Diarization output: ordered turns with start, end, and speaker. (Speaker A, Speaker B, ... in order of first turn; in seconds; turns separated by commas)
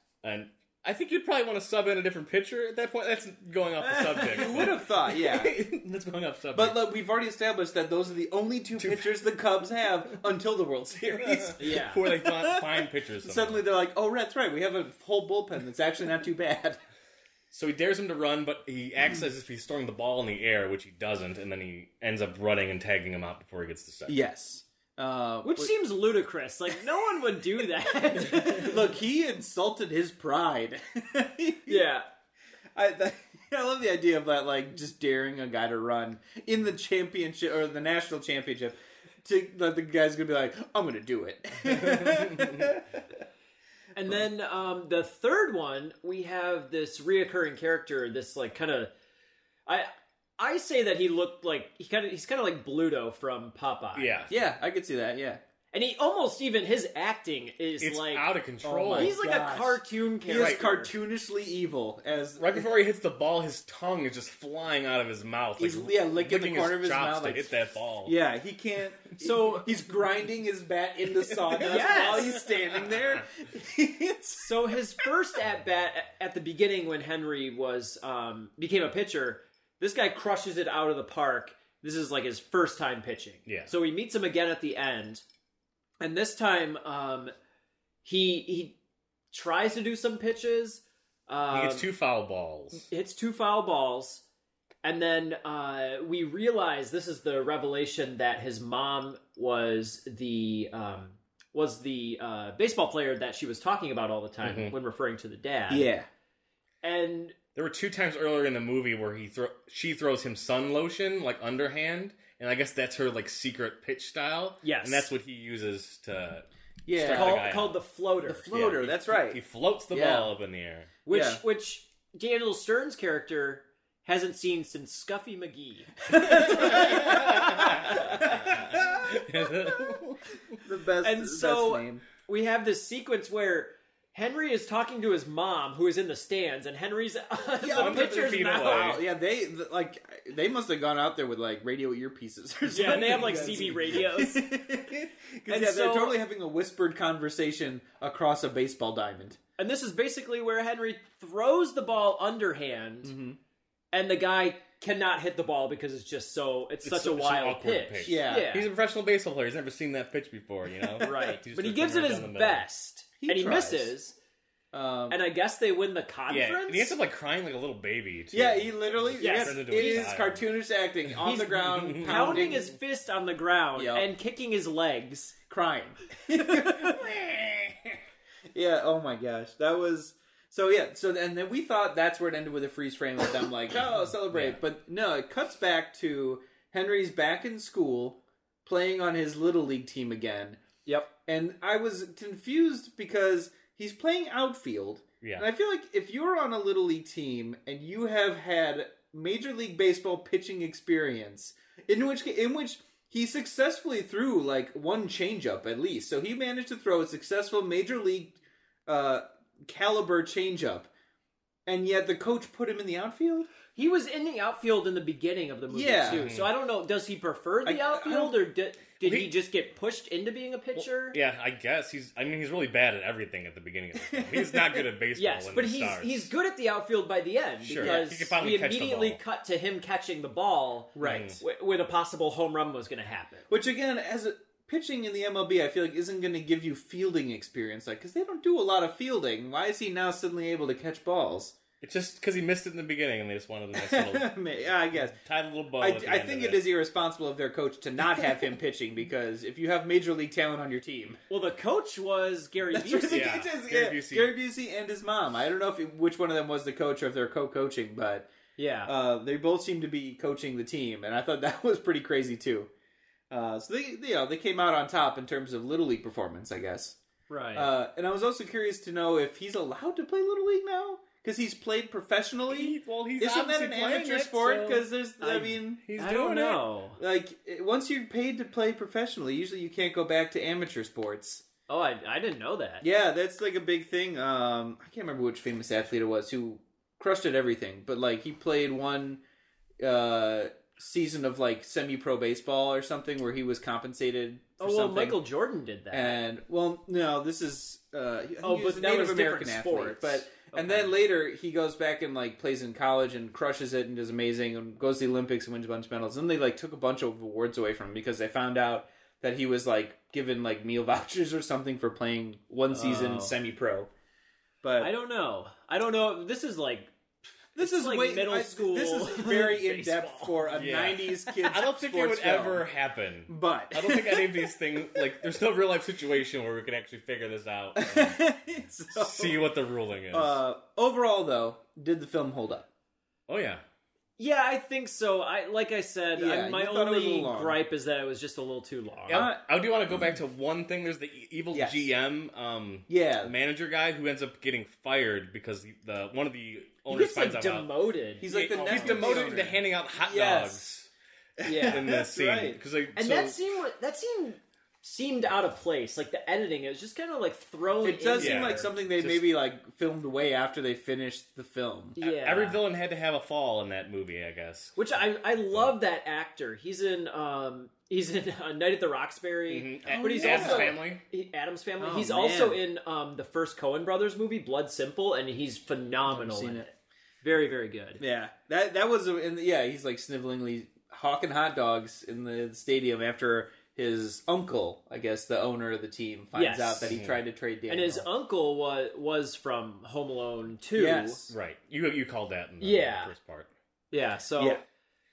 Speaker A: 0.2-6.8, Speaker B: 4.1-16.8, Speaker A: 8.8-9.2, Speaker A: 11.2-13.6, Speaker C: 11.6-12.0, Speaker A: 17.5-24.2, Speaker B: 24.1-25.8, Speaker C: 25.4-28.8, Speaker B: 28.1-31.8, Speaker C: 31.7-32.0, Speaker B: 32.7-42.9, Speaker A: 41.9-42.7, Speaker C: 43.9-48.9, Speaker C: 49.6-54.1, Speaker A: 53.9-54.3, Speaker B: 54.3-55.4, Speaker C: 55.7-58.3, Speaker A: 57.8-59.1, Speaker B: 58.6-62.7, Speaker C: 58.9-60.9, Speaker A: 60.4-60.6, Speaker A: 62.4-68.1, Speaker B: 65.6-74.7, Speaker C: 69.2-69.7, Speaker C: 71.6-72.4, Speaker A: 71.8-72.2, Speaker C: 74.4-85.2, Speaker A: 83.5-83.7, Speaker C: 86.0-87.3, Speaker C: 88.0-88.8, Speaker C: 89.3-91.9, Speaker A: 91.5-92.9, Speaker C: 92.7-94.2, Speaker C: 94.8-105.9, Speaker A: 104.4-104.7, Speaker B: 105.7-106.1, Speaker C: 106.8-107.3, Speaker A: 107.5-117.8, Speaker C: 114.6-115.1, Speaker B: 116.8-117.4, Speaker C: 117.0-118.5, Speaker B: 118.3-120.3, Speaker A: 118.5-120.9, Speaker B: 121.0-121.4, Speaker C: 121.0-128.2, Speaker B: 126.1-129.0, Speaker A: 126.3-130.2, Speaker B: 130.6-132.0, Speaker C: 131.0-139.0, Speaker B: 137.6-149.4, Speaker A: 137.7-139.0, Speaker C: 142.7-144.5, Speaker C: 145.5-146.2, Speaker C: 149.6-153.1, Speaker B: 153.0-153.4, Speaker C: 153.9-158.7, Speaker A: 156.8-162.6, Speaker B: 158.0-158.5, Speaker C: 161.0-164.2, Speaker B: 161.1-161.3, Speaker B: 163.2-163.9, Speaker B: 164.7-165.2, Speaker C: 165.1-167.0, Speaker A: 166.3-170.4, Speaker B: 168.3-172.7, Speaker C: 169.2-170.1, Speaker C: 171.2-175.4, Speaker A: 171.7-172.6, Speaker B: 173.8-174.1, Speaker B: 175.5-178.0, Speaker C: 176.5-176.9, Speaker B: 178.5-190.6, Speaker A: 184.3-184.6, Speaker B: 191.2-210.9, Speaker B: 211.7-213.5, Speaker C: 213.7-221.2, Speaker B: 215.7-216.3, Speaker A: 216.0-216.5, Speaker B: 217.6-218.4, Speaker A: 219.0-219.3, Speaker A: 221.1-226.3, Speaker B: 223.9-224.8, Speaker C: 225.1-233.5, Speaker A: 227.6-229.2, Speaker B: 227.8-228.2, Speaker B: 230.9-231.4, Speaker A: 231.0-231.4, Speaker B: 233.5-241.5, Speaker A: 241.8-244.3, Speaker B: 243.7-245.2, Speaker A: 244.9-246.7, Speaker B: 245.8-251.2, Speaker C: 251.3-253.5, Speaker B: 252.7-258.3, Speaker A: 253.1-254.3, Speaker C: 258.6-258.9, Speaker B: 258.9-262.7, Speaker B: 263.3-267.0, Speaker C: 267.3-267.7, Speaker B: 267.5-276.1, Speaker A: 272.5-274.8, Speaker C: 275.2-277.0, Speaker A: 275.8-276.6, Speaker B: 277.0-281.4, Speaker C: 281.7-282.9, Speaker B: 282.8-289.2, Speaker B: 289.8-295.2, Speaker C: 294.6-296.2, Speaker B: 295.9-313.9, Speaker C: 298.4-300.9, Speaker C: 312.7-313.3, Speaker B: 314.6-314.9, Speaker C: 314.8-316.9, Speaker B: 317.5-322.7, Speaker C: 317.6-320.5, Speaker A: 320.5-328.2, Speaker B: 323.3-325.0, Speaker B: 327.8-329.5, Speaker A: 328.9-330.4, Speaker B: 330.1-332.7, Speaker A: 333.3-333.6, Speaker C: 334.2-339.3, Speaker B: 336.1-337.6, Speaker A: 339.1-350.9, Speaker B: 339.1-339.4, Speaker B: 341.5-341.9, Speaker B: 342.9-343.3, Speaker C: 346.9-349.4, Speaker B: 348.2-350.7, Speaker B: 351.4-352.6, Speaker C: 351.4-351.9, Speaker A: 351.7-353.5, Speaker C: 352.9-358.7, Speaker B: 357.8-362.0, Speaker A: 358.2-359.3, Speaker C: 361.9-362.6, Speaker A: 362.0-365.0, Speaker C: 364.8-378.0, Speaker A: 369.5-371.0, Speaker B: 369.9-370.8, Speaker B: 371.8-372.6, Speaker B: 376.1-376.7, Speaker B: 378.0-388.1, Speaker C: 386.3-386.9, Speaker A: 386.8-387.2, Speaker C: 387.7-391.3, Speaker B: 390.7-391.3, Speaker A: 391.3-393.5, Speaker C: 392.6-393.1, Speaker C: 393.9-394.6